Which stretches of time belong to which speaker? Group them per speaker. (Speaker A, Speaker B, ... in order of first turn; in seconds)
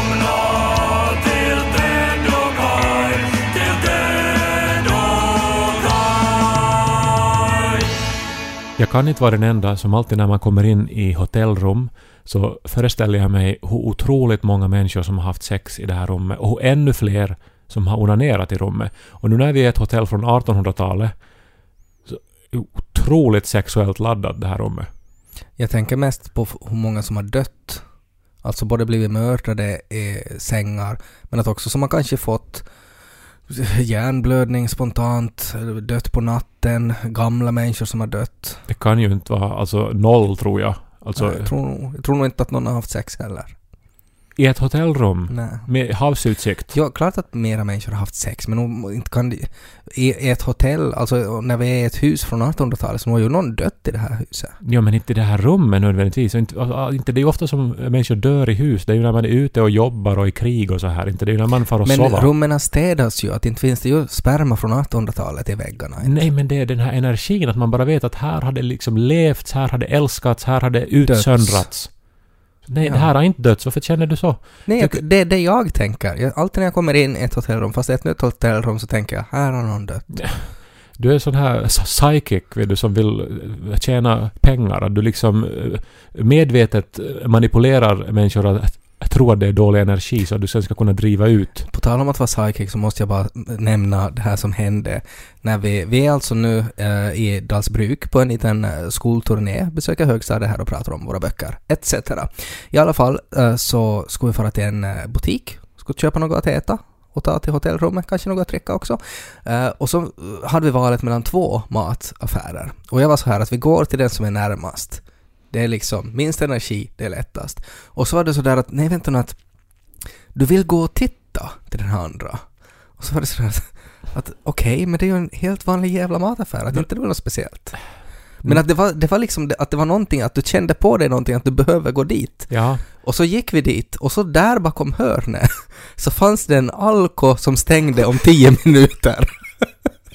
Speaker A: 8.8-21.2, 22.1-24.9, 38.7-41.5, 44.4-46.7, 54.6-62.3, 66.0-72.0, 72.6-75.0, 80.1-91.7, 132.5-132.8
Speaker B: 25.6-27.9, 28.4-32.7, 33.5-38.6, 41.2-43.6, 45.3-45.7, 46.7-54.6, 61.9-66.3, 71.1-72.1, 72.8-73.1, 74.7-80.1, 91.7-119.4, 120.3-139.7